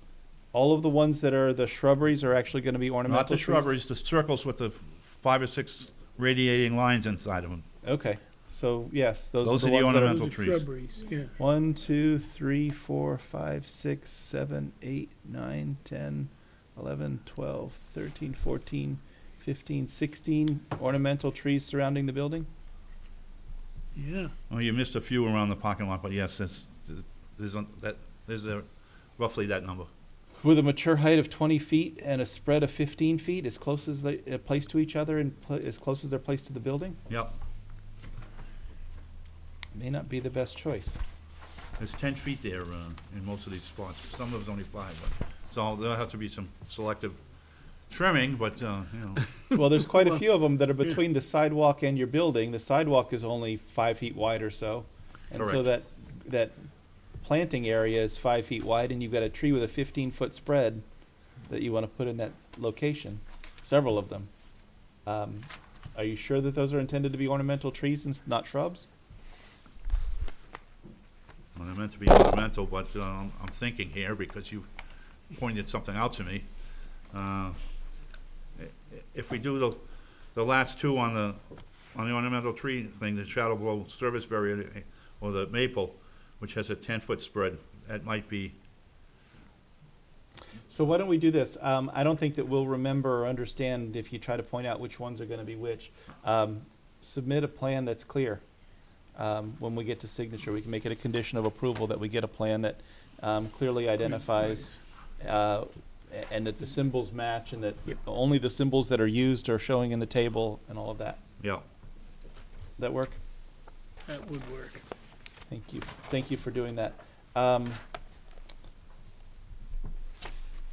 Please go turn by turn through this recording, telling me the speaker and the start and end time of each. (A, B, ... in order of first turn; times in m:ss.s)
0:00.5-0:03.7 A
0:03.1-0:07.6 B
0:07.8-0:10.3 A
0:09.4-0:10.6 B
0:10.0-0:11.3 C
0:11.4-0:22.5 A
0:24.0-0:24.3 C
0:24.5-0:29.9 B
0:30.4-0:37.0 A
0:37.1-0:37.3 B
0:39.7-0:41.0 A
0:41.8-0:47.2 B
0:47.9-0:49.3 B
0:49.5-0:56.6 A
0:55.3-0:55.7 B
0:57.2-1:00.8 A
1:01.5-1:04.3 A
1:05.0-1:08.9 A
1:11.5-1:14.7 B
1:15.3-1:16.4 B
1:17.1-1:17.6 B
1:18.6-1:19.8 B
1:20.3-1:21.4 B
1:21.9-1:28.5 B
1:30.7-1:38.4 A
1:39.2-1:51.2 A
1:52.8-1:53.2 A
1:54.1-1:54.8 C
1:55.5-1:57.8 A